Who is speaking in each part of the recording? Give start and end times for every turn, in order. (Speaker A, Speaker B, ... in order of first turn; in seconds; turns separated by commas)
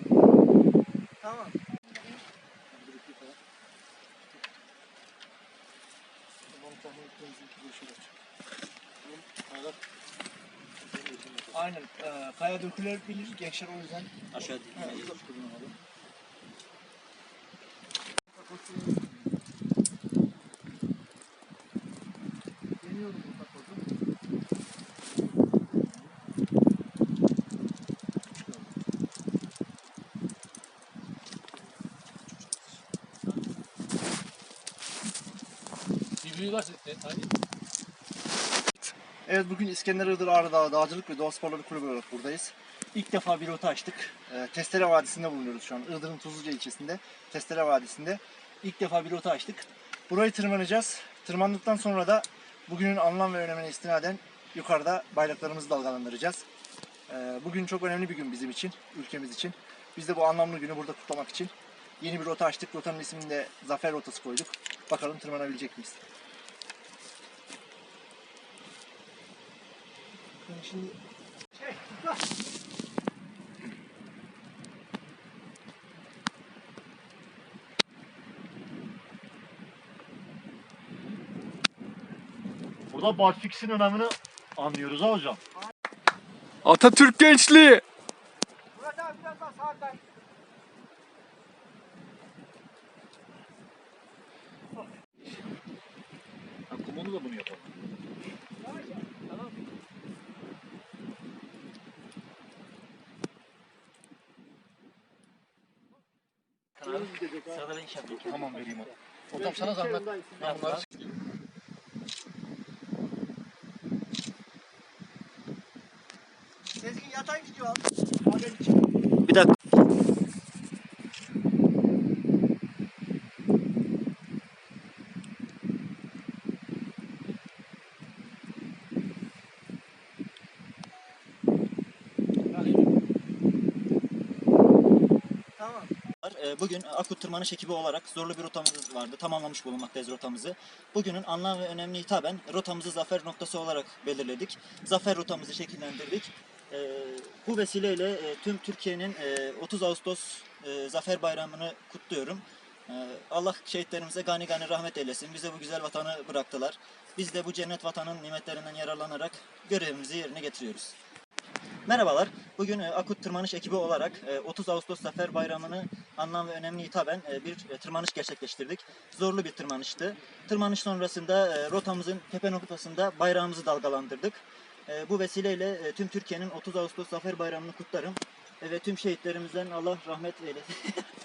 Speaker A: 1.2-1.5, Speaker A: 2.7-3.4, Speaker A: 6.5-8.1, Speaker B: 10.9-11.5, Speaker A: 11.5-15.8, Speaker C: 14.3-15.2, Speaker A: 18.3-19.3, Speaker A: 22.8-23.8, Speaker A: 25.1-26.1, Speaker A: 28.3-28.8, Speaker B: 36.2-37.3, Speaker A: 39.3-56.4, Speaker A: 57.1-66.0, Speaker A: 70.4-71.0, Speaker A: 71.6-72.2, Speaker D: 82.9-85.4, Speaker D: 86.6-87.8, Speaker A: 88.8-90.0, Speaker D: 96.7-97.6, Speaker C: 106.8-108.5, Speaker A: 106.8-110.8, Speaker D: 108.2-108.8, Speaker D: 109.4-110.0, Speaker C: 110.4-110.8, Speaker A: 116.8-119.0, Speaker B: 132.5-132.9, Speaker A: 135.6-135.9, Speaker C: 136.2-160.9, Speaker C: 161.9-181.0